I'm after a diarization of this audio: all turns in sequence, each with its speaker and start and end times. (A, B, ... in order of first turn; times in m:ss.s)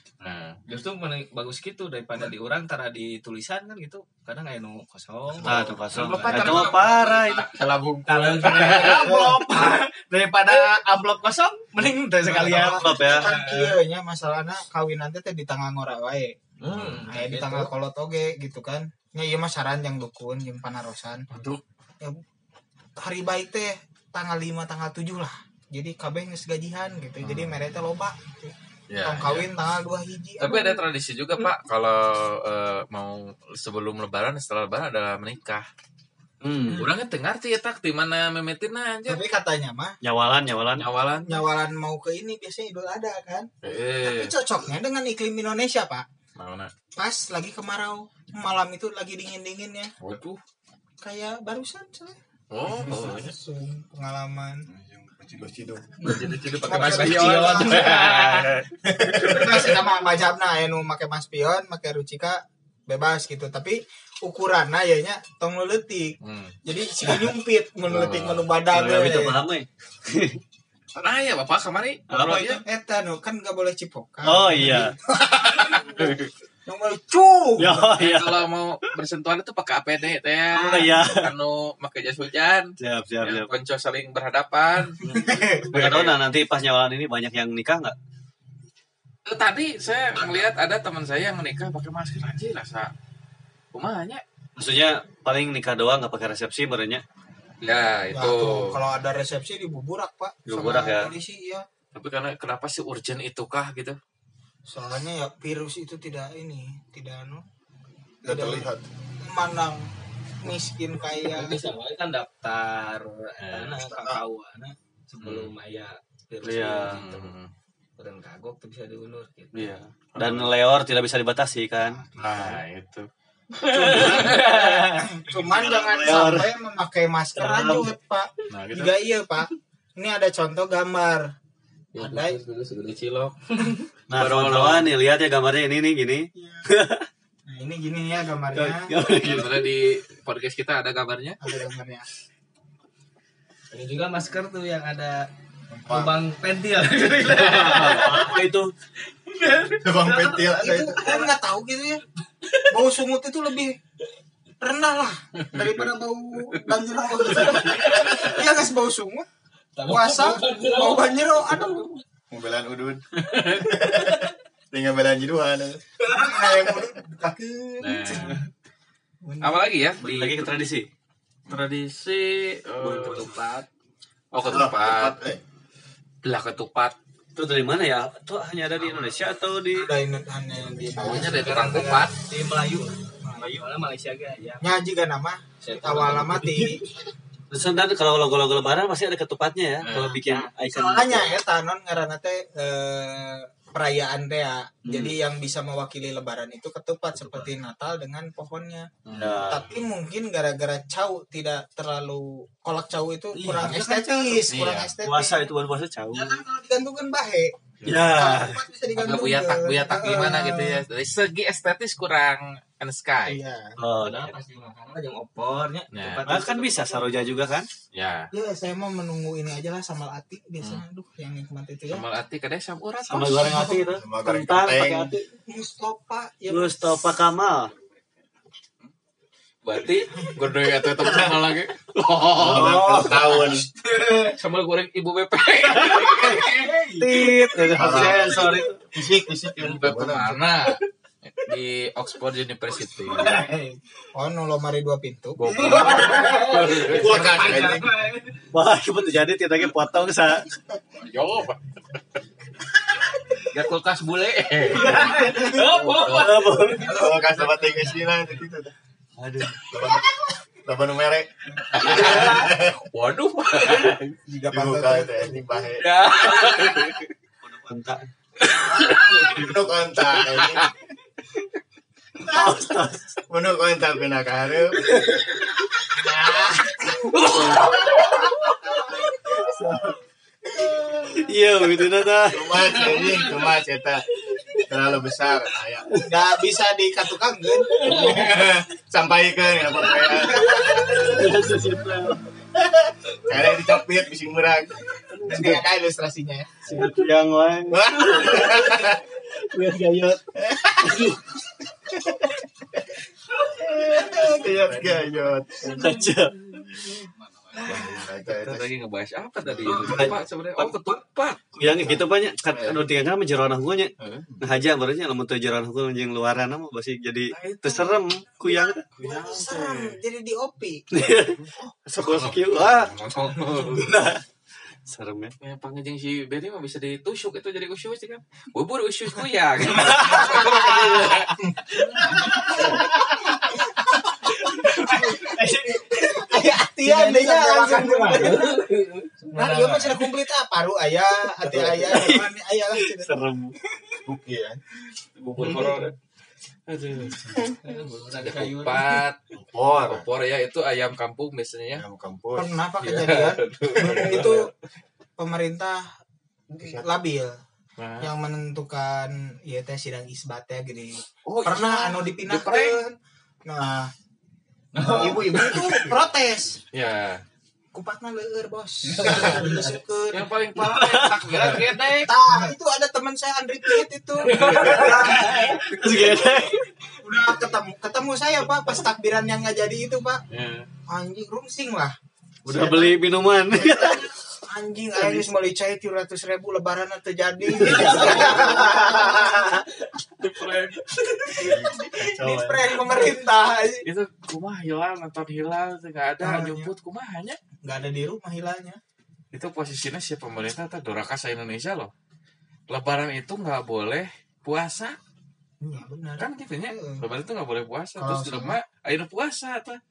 0:00.2-0:00.6 A
0:00.7-0:07.2 B
0:05.4-0:05.8 C
0:05.4-0:07.4 D
0:05.9-0:09.1 A
0:08.0-0:13.8 B
0:08.5-0:09.0 D
0:12.2-0:16.3 E
0:12.4-0:13.3 D
0:16.6-0:17.7 B
0:16.7-0:17.1 A
0:17.0-0:21.2 E
0:21.3-0:21.6 C
0:23.0-0:28.5 E
0:27.2-0:27.6 A
0:28.9-0:29.5 A
0:29.0-0:30.8 E
0:30.4-0:35.7 A
0:36.4-0:36.9 D
0:36.7-0:39.2 A
0:39.1-0:40.0 E
0:40.0-0:40.8 D
0:40.8-0:41.4 A
0:41.3-0:43.5 E
0:43.6-0:44.3 A
0:44.0-0:46.0 E
0:46.4-0:46.7 A
0:47.0-0:49.9 E
0:50.0-0:50.4 A
0:51.0-0:52.2 E
0:52.5-0:53.3 A
0:52.7-0:54.6 E
0:54.7-0:56.1 C
0:56.0-0:59.3 B
0:56.6-0:58.0 E
0:56.7-0:58.1 A
0:59.0-0:59.5 C
0:59.2-1:09.4 E
1:06.2-1:06.6 A
1:07.9-1:10.4 D
1:11.0-1:12.6 A
1:12.1-1:12.6 D
1:12.3-1:17.8 E
1:14.2-1:15.0 D
1:15.3-1:16.1 A
1:17.6-1:18.5 D
1:18.0-1:25.0 A
1:20.5-1:21.3 D
1:22.8-1:23.5 D
1:25.0-1:27.9 D
1:25.0-1:25.7 E
1:25.7-1:26.1 A
1:29.2-1:32.9 A
1:33.7-1:34.2 A
1:34.6-1:37.0 D
1:37.6-1:38.8 A
1:38.1-1:41.6 E
1:40.5-1:41.1 D
1:41.9-1:44.0 A
1:44.7-1:47.4 E
1:48.2-1:48.6 E
1:48.2-1:48.9 C
1:49.2-1:49.9 E
1:50.4-1:51.6 E
1:51.2-1:57.2 B
1:53.4-1:54.2 A
1:55.2-1:55.5 A
1:56.4-1:57.0 D
1:56.8-1:57.5 A
1:58.0-1:59.8 B
1:59.5-2:02.0 D
2:00.1-2:00.5 A
2:02.2-2:03.1 A
2:03.6-2:04.5 D
2:03.7-2:04.3 A
2:03.8-2:05.2 B
2:04.0-2:11.3 E
2:05.4-2:06.5 D
2:07.4-2:07.9 D
2:08.5-2:08.9 A
2:12.0-2:13.3 A
2:12.0-2:12.4 E
2:13.5-2:13.8 B
2:14.1-2:14.9 A
2:14.1-2:17.1 D
2:16.3-2:16.6 E
2:17.5-2:18.9 E
2:18.5-2:19.6 D
2:19.2-2:21.4 A
2:21.4-2:22.1 E
2:23.7-2:25.3 B
2:25.7-2:26.1 C
2:25.9-2:28.4 B
2:27.3-2:28.7 D
2:29.2-2:30.5 B
2:29.8-2:31.2 C
2:30.5-2:32.0 E
2:31.0-2:31.3 B
2:32.4-2:32.7 B
2:32.7-2:33.8 E
2:34.6-2:39.3 E
2:35.4-2:35.9 A
2:37.4-2:38.4 B
2:39.7-2:41.9 B
2:39.8-2:41.9 E
2:42.3-2:43.0 C
2:43.3-2:43.7 A
2:43.6-2:45.8 C
2:43.7-2:44.2 B
2:46.0-2:46.6 B
2:46.1-2:48.5 E
2:47.8-2:48.4 A
2:49.2-2:49.7 E
2:49.4-2:50.5 A
2:50.0-2:50.8 D
2:51.5-2:53.3 A
2:52.8-2:53.3 D
2:53.1-2:53.6 B
2:54.3-2:55.2 A
2:54.4-2:55.4 C
2:56.2-2:56.9 A
2:57.4-2:59.9 D
2:59.7-3:02.1 E
3:01.0-3:02.1 A
3:01.1-3:02.9 B
3:03.2-3:03.5 E
3:03.5-3:04.7 B
3:04.6-3:06.8 E
3:05.6-3:06.8 B
3:07.5-3:11.4 D
3:09.8-3:10.2 A
3:09.9-3:11.0 B
3:10.8-3:18.9 E
3:19.0-3:19.4 A
3:19.2-3:19.7 D
3:19.4-3:25.5 E
3:23.3-3:24.5 B
3:24.4-3:24.9 A
3:25.0-3:26.4 D
3:26.1-3:30.8 E
3:27.8-3:28.1 A
3:27.8-3:28.6 D
3:28.9-3:33.4 A
3:33.2-3:33.8 E
3:33.8-3:34.3 D
3:33.9-3:37.3 B
3:35.9-3:36.4 A
3:36.2-3:37.7 D
3:37.9-3:38.3 A
3:38.3-3:42.0 E
3:41.9-3:43.5 A
3:43.0-3:43.8 E
3:43.1-3:45.2 D
3:43.9-3:45.1 C
3:45.5-3:47.1 E
3:46.5-3:47.7 D
3:49.6-3:52.8 A
3:52.0-3:53.4 D
3:52.4-3:53.6 C
3:52.5-3:53.5 E
3:53.8-3:54.4 B
3:54.3-3:56.4 A
3:55.8-3:58.6 B
3:56.1-3:57.3 E
3:57.0-3:58.8 D
3:57.7-4:00.4 C
3:57.8-3:58.1 E
3:59.6-4:03.5 A
4:03.0-4:03.7 B
4:04.1-4:06.5 E
4:05.4-4:07.3 A
4:05.5-4:08.5 B
4:06.8-4:07.9 C
4:08.5-4:10.5 D
4:11.0-4:11.7 A
4:13.5-4:15.2 A
4:14.7-4:18.1 B
4:14.8-4:17.1 D
4:15.4-4:15.8 E
4:15.7-4:16.5 A
4:16.8-4:18.7 C
4:19.2-4:19.7 D
4:19.7-4:20.1 C
4:20.6-4:22.8 C
4:21.7-4:24.2 A
4:22.0-4:22.5 B
4:24.3-4:25.4 E
4:24.5-4:26.7 C
4:25.8-4:27.0 A
4:27.4-4:28.1 D
4:28.5-4:29.4 A
4:29.1-4:30.7 C
4:30.2-4:30.7 A
4:32.2-4:33.0 D
4:33.3-4:34.9 C
4:35.9-4:37.4 E
4:37.2-4:37.6 A
4:37.3-4:38.5 B
4:37.3-4:37.7 D
4:38.6-4:39.0 E
4:39.3-4:39.9 B
4:41.2-4:42.7 D
4:42.3-4:44.0 C
4:42.8-4:43.3 B
4:44.6-4:45.8 C
4:45.9-4:48.3 E
4:47.8-4:48.5 B
4:47.9-4:50.9 C
4:50.2-4:51.2 E
4:50.9-4:52.2 D
4:53.2-4:54.9 C
4:55.2-4:56.5 E
4:55.3-4:55.6 D
4:56.7-5:00.2 D
4:57.7-4:59.0 C
5:00.4-5:00.8 C
5:00.8-5:01.2 D
5:03.5-5:04.3 B
5:03.9-5:05.9 C
5:04.1-5:05.0 D
5:05.6-5:06.6 D
5:07.5-5:08.0 B
5:07.6-5:11.5 A
5:07.7-5:08.7 C
5:09.4-5:10.2 C
5:09.8-5:10.2 D
5:11.5-5:18.8 D
5:11.6-5:12.0 C
5:14.0-5:14.4 C
5:17.3-5:18.0 A
5:18.4-5:20.9 E
5:19.0-5:20.0 A
5:20.9-5:22.9 D
5:21.3-5:23.9 A
5:23.4-5:23.7 E
5:23.6-5:24.2 D
5:24.9-5:25.3 D
5:25.4-5:31.4 A
5:30.0-5:32.4 E
5:31.7-5:33.5 B
5:34.3-5:40.1 B
5:36.1-5:38.6 E
5:39.3-5:43.1 E
5:41.4-5:43.5 D
5:44.0-5:44.6 C
5:45.2-5:45.9 A
5:45.4-5:45.8 B
5:46.7-5:47.2 A
5:47.2-5:47.5 C
5:47.6-5:49.0 B
5:48.2-5:49.2 A
5:49.3-5:50.1 C
5:49.7-5:51.8 A
5:51.7-5:52.6 C
5:52.4-5:54.5 E
5:52.8-5:54.5 A
5:53.9-5:54.2 C
5:55.2-5:55.9 E
5:56.5-5:57.4 E
5:57.8-5:58.1 A
5:58.0-6:03.9 E
6:01.2-6:02.8 A
6:04.7-6:05.9 B
6:04.9-6:06.6 E
6:06.7-6:07.2 A
6:07.7-6:10.3 E
6:09.0-6:09.8 B
6:10.1-6:12.2 A
6:10.6-6:11.5 D
6:11.0-6:11.4 B
6:12.0-6:15.7 E
6:14.3-6:16.0 B
6:15.3-6:16.7 D
6:17.0-6:20.2 E
6:20.3-6:20.7 A
6:20.9-6:23.0 E
6:22.4-6:24.0 D
6:23.5-6:29.6 E
6:27.6-6:29.7 B
6:27.6-6:28.3 D
6:30.2-6:31.0 A
6:31.3-6:33.8 E
6:31.4-6:32.9 C
6:33.8-6:37.4 A
6:36.2-6:36.7 E
6:37.6-6:38.8 E
6:39.3-6:41.9 A
6:42.7-6:45.0 A
6:45.6-6:47.0 E
6:46.2-6:49.8 A
6:48.0-6:48.6 E